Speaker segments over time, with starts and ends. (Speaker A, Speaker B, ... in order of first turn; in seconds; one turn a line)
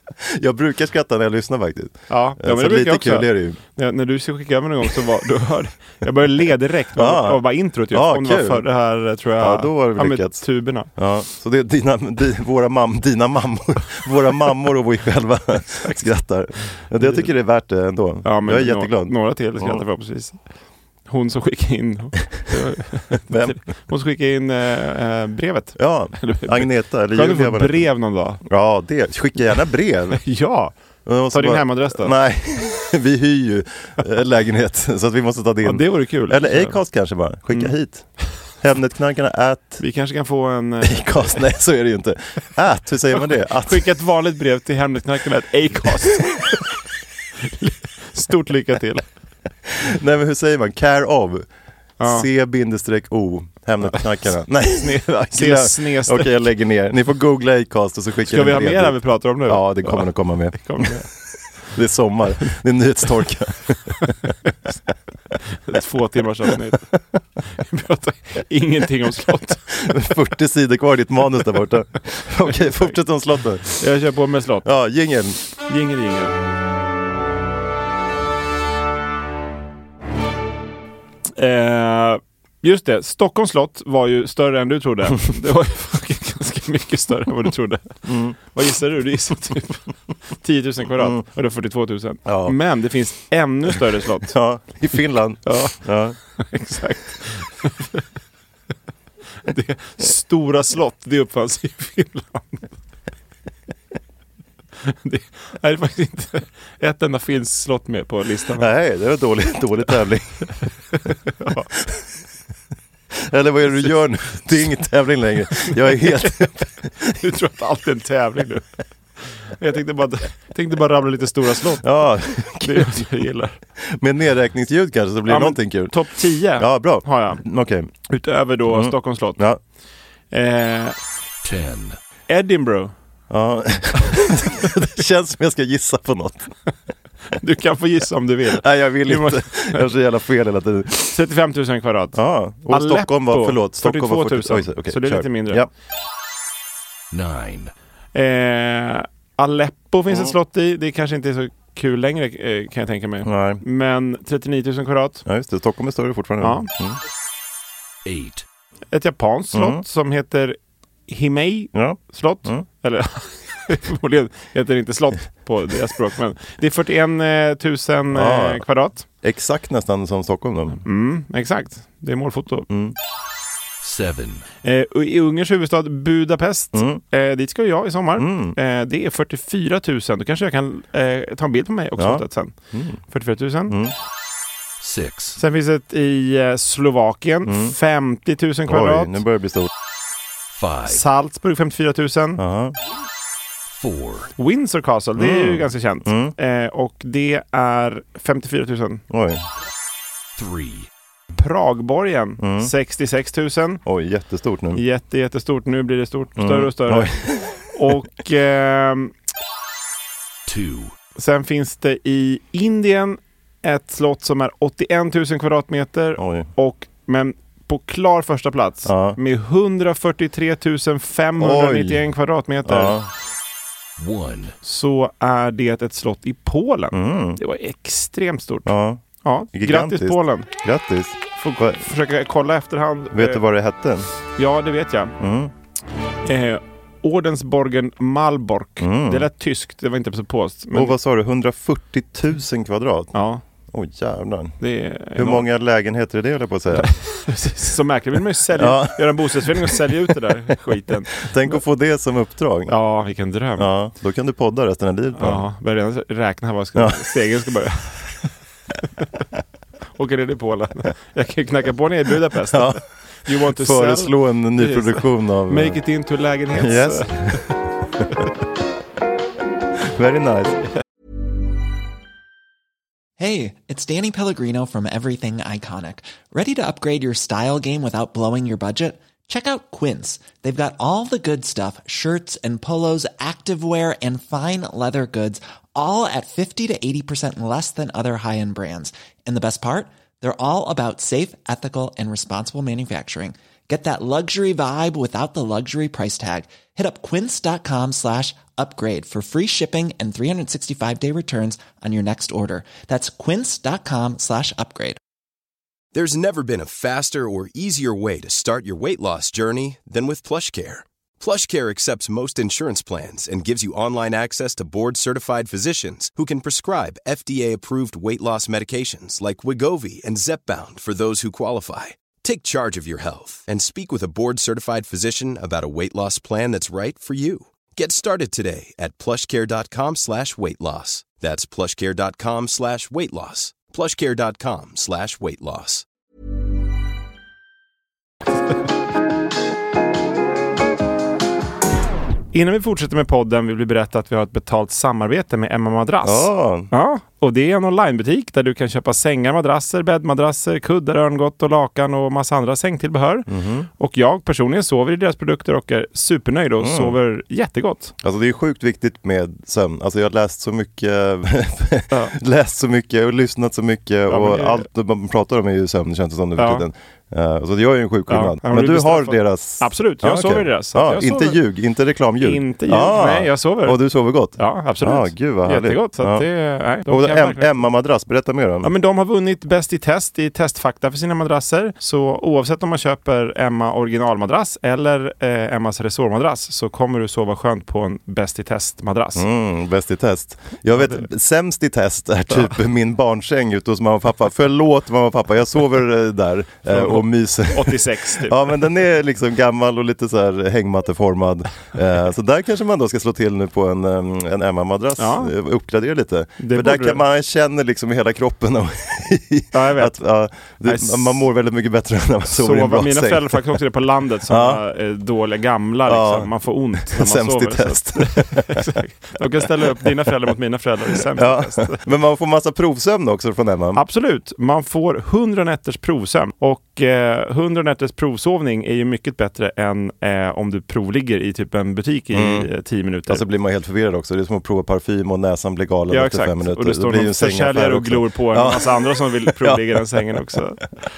Speaker A: 0.2-3.6
Speaker B: 2.1-10.9
Speaker A: 7.0-8.7
Speaker A: 9.4-19.8
Speaker B: 15.8-16.1
Speaker B: 17.0-17.3
Speaker B: 18.2-20.4
Speaker B: 21.1-28.4
Speaker A: 23.3-23.6
Speaker A: 25.8-27.9
Speaker A: 28.4-30.2
Speaker B: 30.2-30.8
Speaker A: 31.1-39.8
Speaker B: 31.3-32.1
Speaker B: 35.6-36.8
Speaker B: 39.8-41.4
Speaker A: 40.8-43.9
Speaker B: 43.6-46.7
Speaker B: 47.5-49.0
Speaker A: 49.8-51.5
Speaker B: 52.0-52.3
Speaker A: 52.0-61.1
Speaker B: 54.6-56.3
Speaker B: 58.2-61.1
Speaker A: 61.7-64.1
Speaker B: 65.5-66.9
Speaker B: 67.6-69.7
Speaker A: 69.7-73.8
Speaker B: 72.6-72.8
Speaker B: 73.8-74.7
Speaker A: 74.6-75.4
Speaker B: 75.6-76.3
Speaker B: 81.4-94.4
Speaker A: 88.0-88.4
Speaker A: 92.3-92.6
Speaker A: 94.3-96.2
Speaker B: 95.5-95.8
Speaker B: 96.4-98.0
Speaker B: 99.5-102.7
Speaker B: 104.8-108.7
Speaker A: 108.6-110.5
Speaker B: 110.9-111.7
Speaker A: 113.2-117.1
Speaker B: 115.6-116.3
Speaker B: 117.0-118.7
Speaker B: 119.6-123.6
Speaker A: 121.8-123.1
Speaker A: 123.8-126.0
Speaker B: 125.3-127.4
Speaker A: 126.5-127.9
Speaker B: 128.1-129.4
Speaker A: 128.7-129.6
Speaker B: 130.3-131.0
Speaker C: 131.4-132.0
Speaker B: 132.3-132.9
Speaker A: 133.3-136.5
Speaker B: 137.3-139.9
Speaker A: 138.5-141.2
Speaker B: 141.1-145.7
Speaker A: 142.1-145.7
Speaker C: 147.1-147.7
Speaker B: 148.1-155.2
Speaker A: 150.1-150.3
Speaker A: 153.2-153.6
Speaker A: 155.3-157.0
Speaker B: 156.4-156.7
Speaker C: 158.1-158.4
Speaker B: 158.9-169.1
Speaker A: 159.5-159.8
Speaker A: 161.7-162.7
Speaker A: 168.1-168.6
Speaker A: 169.2-170.8
Speaker B: 170.8-172.7
Speaker A: 172.7-173.0
Speaker C: 173.8-174.4
Speaker B: 174.6-183.8
Speaker A: 176.7-177.0
Speaker A: 178.2-178.6
Speaker A: 182.0-183.0
Speaker A: 183.7-183.9
Speaker C: 184.8-185.4
Speaker B: 185.4-189.2
Speaker A: 187.5-187.8
Speaker A: 188.7-189.7
Speaker C: 190.5-191.1
Speaker B: 190.9-192.4
Speaker A: 192.4-192.8
Speaker C: 193.7-194.3
Speaker B: 194.4-199.0
Speaker A: 195.2-196.3
Speaker A: 199.1-199.4
Speaker C: 200.4-200.9
Speaker B: 201.3-203.8
Speaker A: 202.4-202.7
Speaker A: 203.8-204.8
Speaker B: 204.7-207.1
Speaker A: 206.4-208.0
Speaker B: 207.7-209.1
Speaker C: 210.5-210.9
Speaker B: 211.2-223.0
Speaker A: 216.2-216.5
Speaker A: 218.8-219.2
Speaker A: 221.4-222.1
Speaker A: 222.7-223.1
Speaker C: 224.0-224.5
Speaker B: 224.6-230.5
Speaker A: 226.9-227.4
Speaker A: 228.7-231.8
Speaker B: 231.4-233.4
Speaker A: 233.1-234.1
Speaker B: 234.4-235.2
Speaker A: 235.2-235.5
Speaker B: 236.2-240.9
Speaker A: 238.8-239.3
Speaker A: 240.7-243.1
Speaker B: 243.1-243.4
Speaker A: 243.7-244.6
Speaker B: 244.6-245.5
Speaker A: 245.2-246.9
Speaker B: 246.7-251.2
Speaker A: 248.5-250.1
Speaker A: 251.2-252.7
Speaker B: 252.7-253.7
Speaker A: 253.6-255.5
Speaker B: 255.2-258.1
Speaker A: 256.8-257.1
Speaker B: 259.9-267.6
Speaker A: 262.5-265.8
Speaker A: 266.5-268.1
Speaker A: 269.8-270.6
Speaker D: 273.2-305.0
Speaker E: 305.9-335.9
Speaker B: 342.3-357.9
Speaker A: 346.0-346.7
Speaker A: 353.3-353.7
Speaker A: 356.6-357.0
Speaker A: 358.0-376.3
Speaker B: 364.1-364.7
Speaker B: 366.4-366.7
Speaker B: 368.1-371.4
Speaker B: 372.2-373.8
Speaker B: 374.4-377.6
Speaker A: 376.9-378.7
Speaker B: 378.6-389.3
Speaker A: 389.2-413.6
Speaker B: 390.7-391.1
Speaker B: 396.7-398.6
Speaker B: 405.0-405.3
Speaker B: 406.4-407.0
Speaker B: 409.5-411.2
Speaker B: 412.3-421.9
Speaker A: 414.3-414.6
Speaker A: 415.9-418.6
Speaker A: 419.4-419.9
Speaker A: 421.1-423.8
Speaker B: 423.8-433.2
Speaker A: 432.1-432.5
Speaker A: 433.1-440.4
Speaker B: 435.9-440.7